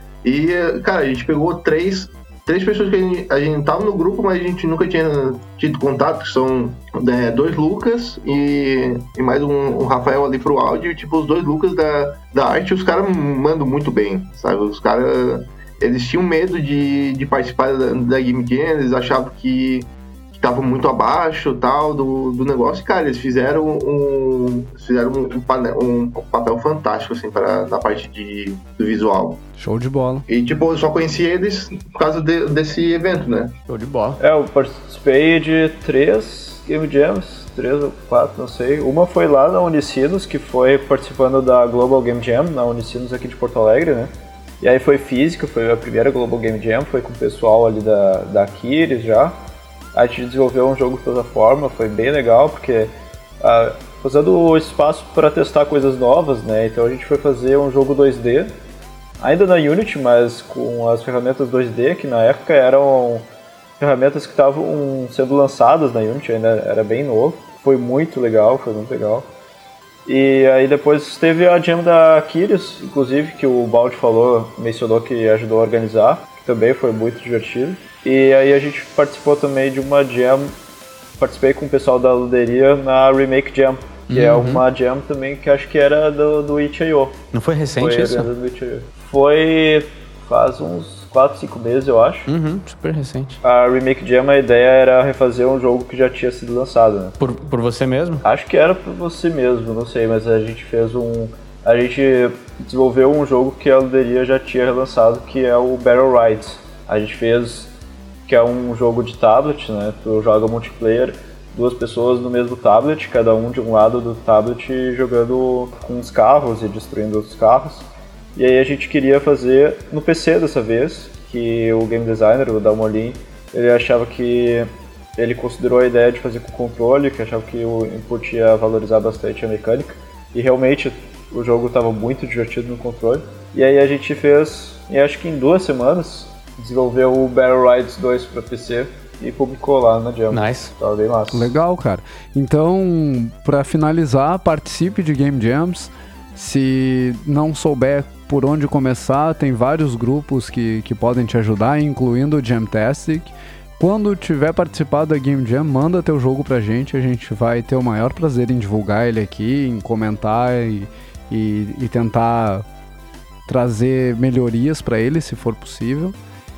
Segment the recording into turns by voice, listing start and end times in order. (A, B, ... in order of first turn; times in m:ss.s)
0:00.2-0:29.4 A
0:29.6-0:30.3 B
0:30.3-0:33.6 A
0:33.7-0:34.2 C
0:34.2-0:49.4 D
0:49.9-0:58.5 D
0:59.2-1:03.3 D
1:03.8-1:09.3 D
1:10.0-1:20.5 D
1:21.2-1:27.2 D
1:24.1-1:24.6 C
1:27.3-1:28.3 C
1:27.8-1:32.3 D
1:32.3-1:33.4 C
1:33.4-1:37.2 D
1:37.2-1:38.2 C
1:38.2-1:47.7 D
1:48.3-2:21.5 D
2:20.3-2:20.7 C
2:21.3-2:42.6 B
2:43.4-2:46.1 B